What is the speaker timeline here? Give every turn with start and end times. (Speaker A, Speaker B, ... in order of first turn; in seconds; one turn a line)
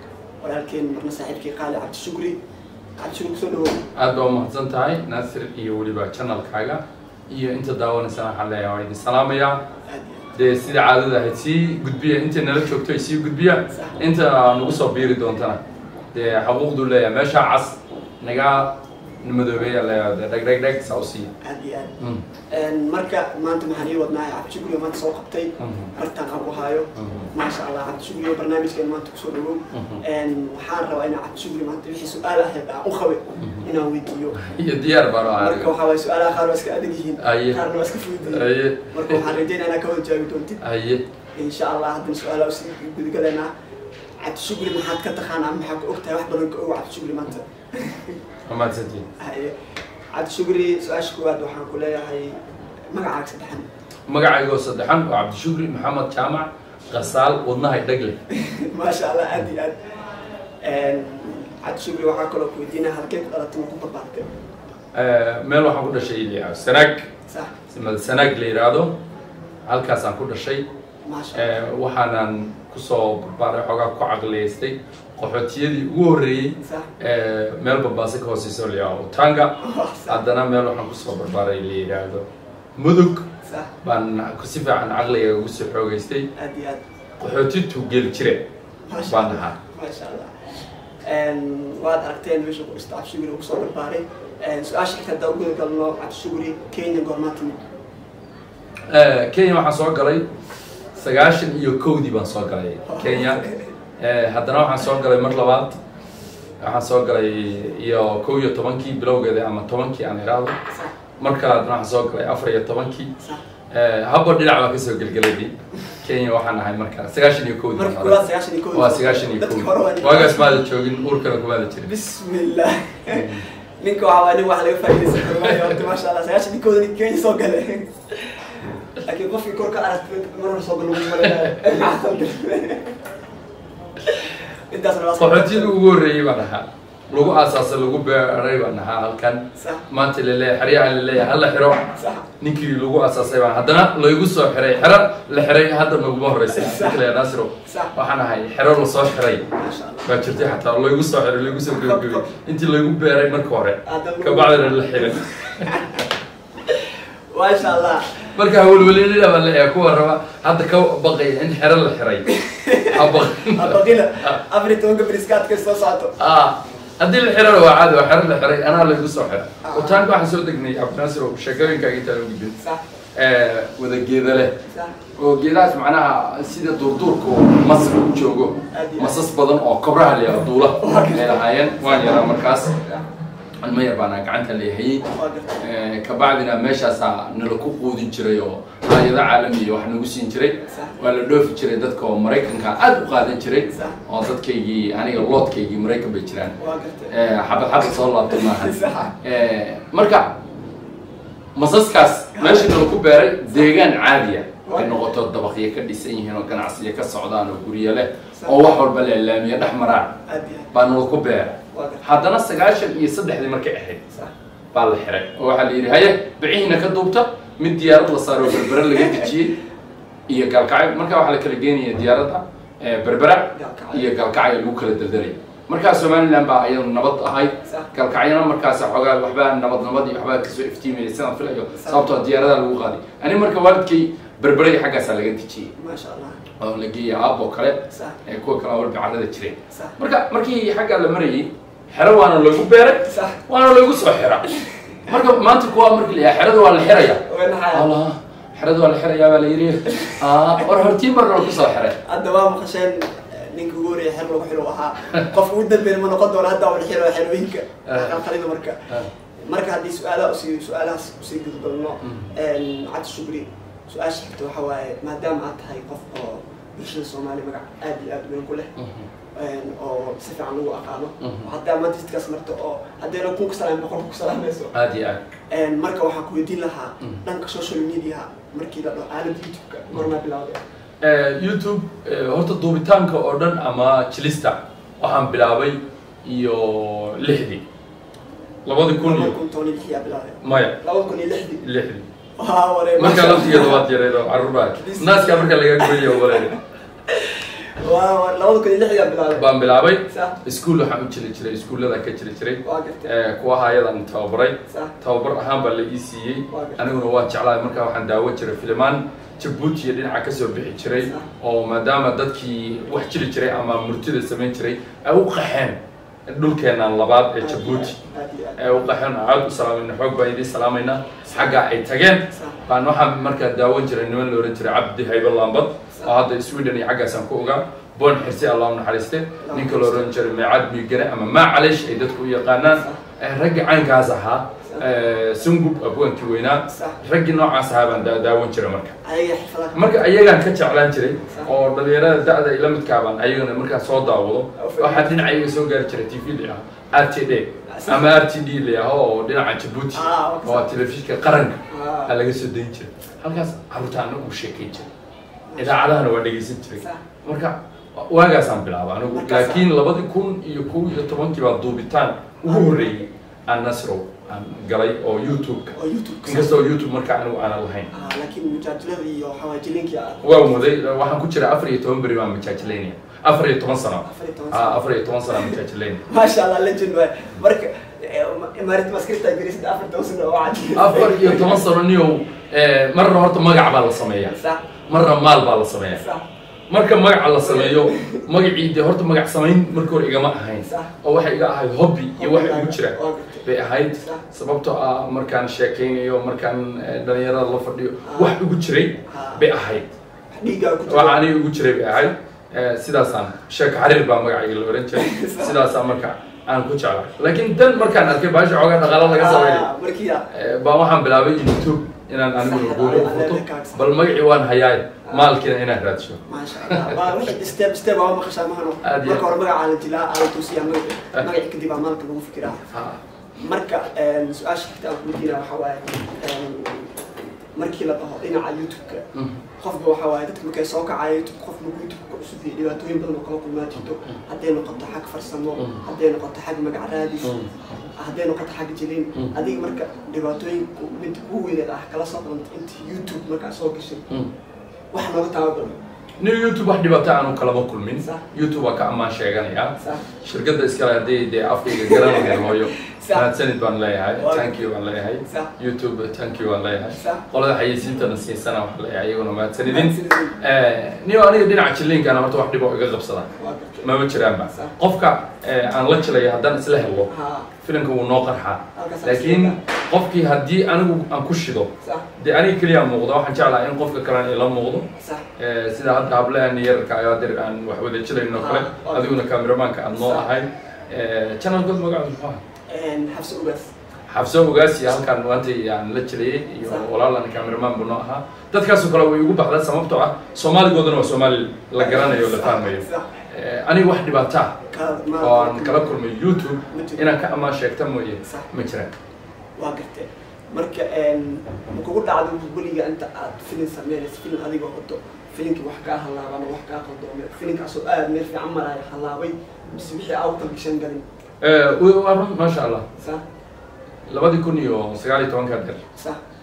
Speaker A: 0.4-2.4
Speaker A: 3.0-3.8
Speaker B: 3.9-9.6
Speaker A: 9.9-10.3
Speaker B: 10.3-15.6
Speaker B: 16.1-21.3
Speaker A: 21.4-21.9
Speaker A: 22.5-34.5
Speaker B: 25.6-25.9
Speaker B: 26.9-27.3
Speaker B: 29.7-30.0
Speaker B: 33.4-33.6
Speaker B: 34.4-35.7
Speaker A: 35.4-40.6
Speaker B: 37.2-37.6
Speaker B: 38.2-39.3
Speaker B: 40.6-41.0
Speaker A: 41.4-43.5
Speaker A: 44.2-48.2
Speaker B: 48.5-49.0
Speaker A: 49.2-49.5
Speaker A: 50.1-52.4
Speaker A: 52.9-53.6
Speaker B: 54.1-58.2
Speaker A: 58.3-59.8
Speaker A: 60.6-64.3
Speaker B: 64.9-67.1
Speaker B: 67.7-68.9
Speaker B: 69.7-70.6
Speaker A: 71.0-71.6
Speaker B: 71.3-82.2
Speaker A: 76.6-76.9
Speaker A: 79.6-80.2
Speaker B: 82.8-83.3
Speaker A: 83.4-83.7
Speaker B: 83.8-86.3
Speaker A: 86.3-86.8
Speaker B: 87.2-88.5
Speaker A: 88.9-90.3
Speaker B: 89.0-89.5
Speaker A: 91.0-97.6
Speaker B: 98.9-100.3
Speaker B: 101.0-103.4
Speaker A: 102.8-103.7
Speaker B: 104.0-105.8
Speaker B: 106.6-110.6
Speaker B: 111.2-113.1
Speaker B: 113.7-121.9
Speaker A: 117.8-120.5
Speaker A: 121.8-132.9
Speaker B: 123.1-123.4
Speaker B: 125.1-125.8
Speaker A: 134.0-135.8
Speaker B: 135.2-141.9
Speaker A: 139.6-139.8
Speaker A: 141.9-142.3
Speaker B: 142.4-149.5
Speaker A: 146.5-147.0
Speaker A: 147.6-147.9
Speaker A: 149.5-150.1
Speaker B: 150.0-155.7
Speaker A: 151.7-152.3
Speaker A: 153.8-156.1
Speaker A: 156.7-158.2
Speaker B: 158.3-162.2
Speaker A: 162.3-166.2
Speaker B: 162.8-164.4
Speaker B: 166.2-172.6
Speaker A: 169.6-170.0
Speaker B: 173.1-174.6
Speaker A: 174.7-175.0
Speaker B: 175.1-182.8
Speaker A: 178.7-179.2
Speaker A: 180.8-183.1
Speaker B: 183.6-185.1
Speaker A: 185.0-185.7
Speaker B: 185.6-196.6
Speaker A: 190.6-191.0
Speaker A: 193.7-194.0
Speaker A: 196.6-197.2
Speaker B: 197.1-200.4
Speaker A: 197.9-199.1
Speaker B: 201.5-210.2
Speaker A: 202.3-202.8
Speaker A: 204.6-205.0
Speaker A: 208.3-208.7
Speaker A: 210.3-210.7
Speaker B: 210.7-214.0
Speaker A: 211.7-212.1
Speaker B: 214.7-219.6
Speaker A: 218.9-219.3
Speaker B: 220.3-235.7
Speaker A: 223.5-224.1
Speaker A: 227.6-227.9
Speaker A: 231.7-232.1
Speaker A: 235.8-236.4
Speaker B: 236.6-244.5
Speaker A: 237.9-238.2
Speaker A: 243.0-243.4
Speaker A: 244.4-245.2
Speaker B: 245.1-252.0
Speaker A: 247.0-247.9
Speaker A: 249.9-250.9
Speaker A: 252.0-258.8
Speaker B: 257.9-258.2
Speaker A: 259.5-268.7
Speaker B: 262.0-262.3
Speaker B: 268.8-269.1
Speaker A: 269.3-274.7
Speaker B: 271.2-271.5
Speaker B: 274.7-275.2
Speaker A: 275.5-280.6
Speaker B: 281.0-287.6
Speaker B: 288.6-289.3
Speaker A: 289.0-291.6
Speaker B: 290.4-290.8
Speaker B: 291.6-292.1
Speaker A: 292.4-293.8
Speaker B: 292.9-296.5
Speaker A: 294.8-299.5
Speaker B: 299.3-317.9
Speaker A: 300.1-300.4
Speaker A: 302.6-303.1
Speaker A: 304.7-304.9
Speaker A: 306.5-306.9
Speaker A: 311.0-311.3
Speaker A: 317.4-318.6
Speaker B: 318.6-339.0
Speaker A: 321.2-321.5
Speaker A: 322.3-322.6
Speaker A: 329.4-330.1
Speaker A: 332.7-333.0
Speaker A: 336.7-337.0
Speaker A: 339.0-340.2
Speaker B: 339.7-354.9
Speaker A: 344.6-345.3
Speaker A: 347.7-348.1
Speaker A: 349.9-350.7
Speaker A: 351.7-352.1
Speaker A: 355.5-356.0
Speaker B: 355.6-367.9
Speaker A: 359.1-359.7
Speaker A: 362.5-363.1
Speaker A: 365.8-366.6
Speaker A: 367.9-370.6
Speaker B: 370.2-376.0
Speaker A: 374.0-381.6
Speaker B: 380.7-386.0
Speaker A: 384.2-384.6
Speaker A: 385.9-386.2
Speaker B: 386.7-399.9
Speaker A: 387.4-388.2
Speaker A: 390.6-390.9
Speaker A: 392.2-394.2
Speaker A: 398.0-398.4
Speaker A: 399.1-399.4
Speaker A: 400.4-401.3
Speaker B: 400.9-409.7
Speaker A: 404.9-405.6
Speaker A: 409.0-410.3
Speaker B: 410.3-417.2
Speaker A: 412.4-413.9
Speaker A: 415.0-415.3
Speaker A: 416.3-422.6
Speaker B: 418.8-419.3
Speaker B: 422.6-423.0
Speaker A: 423.4-429.0
Speaker A: 429.6-437.4
Speaker B: 437.2-437.5
Speaker A: 437.9-444.0
Speaker A: 444.9-445.8
Speaker B: 446.2-463.3
Speaker A: 449.8-450.1
Speaker A: 451.7-453.3
Speaker A: 454.2-454.6
Speaker A: 455.2-455.5
Speaker A: 457.0-457.2
Speaker A: 459.6-460.4
Speaker A: 463.3-463.9
Speaker B: 463.8-467.1
Speaker A: 464.5-464.7
Speaker A: 467.1-467.5
Speaker B: 467.6-474.9
Speaker A: 468.7-469.6
Speaker A: 471.8-472.1
Speaker A: 475.0-475.2
Speaker B: 475.4-482.4
Speaker A: 478.3-479.3
Speaker A: 479.9-480.3
Speaker A: 482.7-483.7
Speaker B: 484.1-494.6
Speaker A: 491.8-493.1
Speaker A: 494.7-495.9
Speaker B: 495.2-498.9
Speaker A: 496.7-497.1
Speaker A: 499.6-511.0
Speaker B: 511.4-512.8
Speaker B: 514.1-515.8